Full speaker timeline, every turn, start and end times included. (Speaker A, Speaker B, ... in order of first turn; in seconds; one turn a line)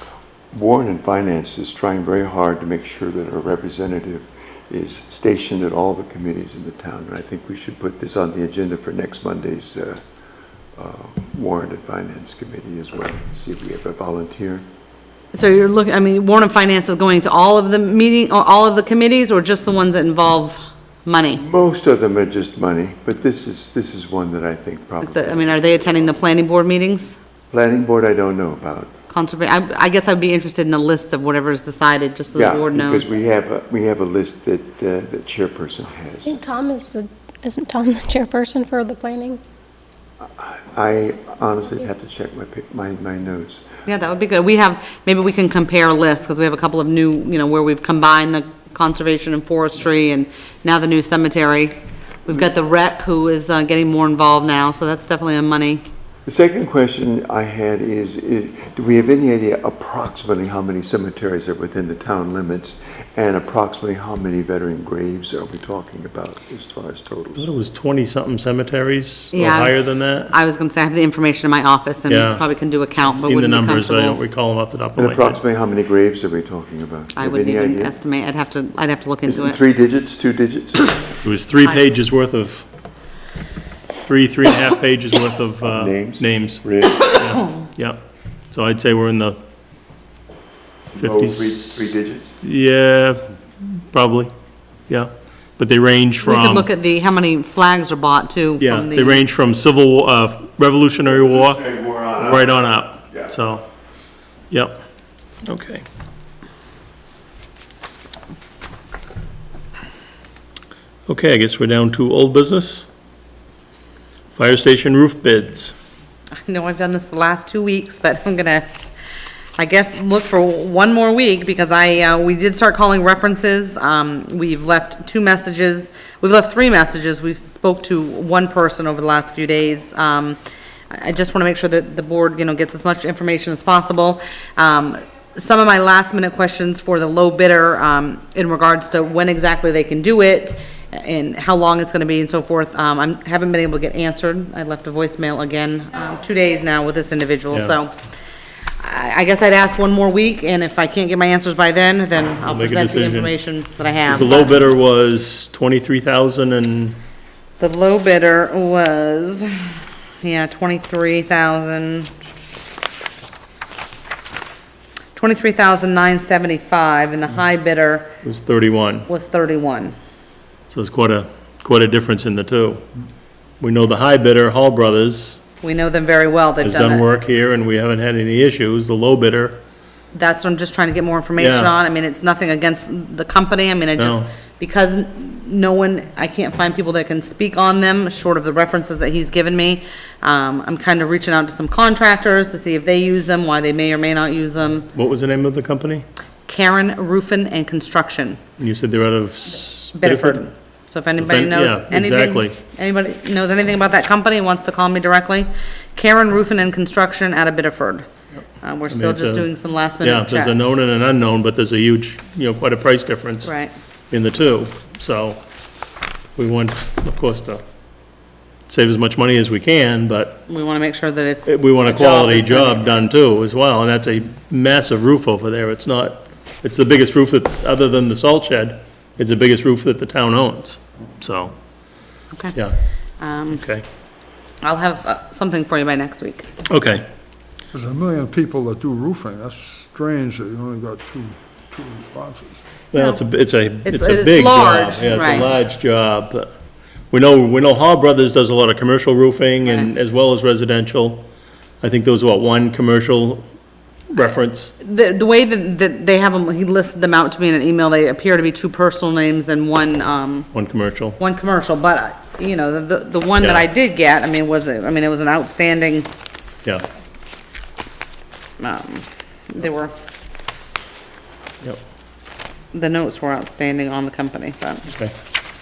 Speaker A: 0.5-10.0
Speaker A: 10.8-14.7
Speaker B: 15.3-21.4
Speaker A: 21.4-26.1
Speaker B: 25.0-27.1
Speaker A: 27.5-28.9
Speaker B: 29.1-33.1
Speaker A: 32.3-36.4
Speaker C: 36.3-39.4
Speaker A: 40.2-43.6
Speaker B: 43.9-55.8
Speaker A: 56.3-67.5
Speaker D: 67.4-70.3
Speaker B: 69.3-74.2
Speaker D: 72.1-72.4
Speaker D: 73.0-75.4
Speaker A: 75.0-77.9
Speaker B: 77.2-79.6
Speaker A: 79.3-81.0
Speaker D: 81.2-82.7
Speaker D: 84.0-88.0
Speaker A: 85.6-87.4
Speaker D: 88.5-89.4
Speaker A: 90.9-92.3
Speaker D: 91.0-94.3
Speaker D: 94.9-96.7
Speaker B: 96.2-99.2
Speaker D: 98.6-103.7
Speaker A: 101.1-103.3
Speaker D: 104.5-104.8
Speaker D: 105.5-105.8
Speaker D: 111.1-112.9
Speaker D: 114.3-115.7
Speaker B: 116.4-118.7
Speaker B: 119.6-130.4
Speaker B: 130.9-147.9
Speaker B: 148.8-154.6
Speaker D: 152.4-153.3
Speaker D: 154.1-157.0
Speaker B: 157.6-159.7
Speaker B: 160.2-162.1
Speaker B: 165.2-168.1
Speaker D: 168.2-169.1
Speaker B: 169.1-169.9
Speaker D: 170.7-172.8
Speaker D: 173.6-175.4
Speaker B: 175.6-177.1
Speaker D: 176.6-179.6
Speaker B: 180.1-194.9
Speaker D: 181.4-181.8
Speaker D: 184.0-184.3
Speaker D: 194.9-196.1
Speaker B: 196.5-198.4
Speaker D: 198.6-200.4
Speaker B: 199.9-208.1
Speaker D: 201.2-202.5
Speaker B: 208.6-210.8
Speaker D: 208.9-213.5
Speaker B: 213.4-213.7
Speaker D: 214.1-215.4
Speaker D: 216.4-217.6
Speaker D: 218.7-220.4
Speaker B: 220.5-222.9
Speaker D: 221.5-231.5
Speaker B: 233.2-233.6
Speaker D: 233.5-233.8
Speaker B: 234.6-236.5
Speaker D: 236.7-237.1
Speaker E: 237.7-242.6
Speaker D: 242.9-246.5
Speaker B: 242.9-243.2
Speaker B: 243.8-245.5
Speaker D: 247.1-251.3
Speaker D: 251.8-253.4
Speaker D: 254.1-254.7
Speaker B: 254.8-260.5
Speaker D: 260.5-261.2
Speaker B: 261.2-266.1
Speaker D: 263.4-263.7
Speaker B: 268.6-269.9
Speaker B: 272.7-274.9
Speaker D: 274.9-275.1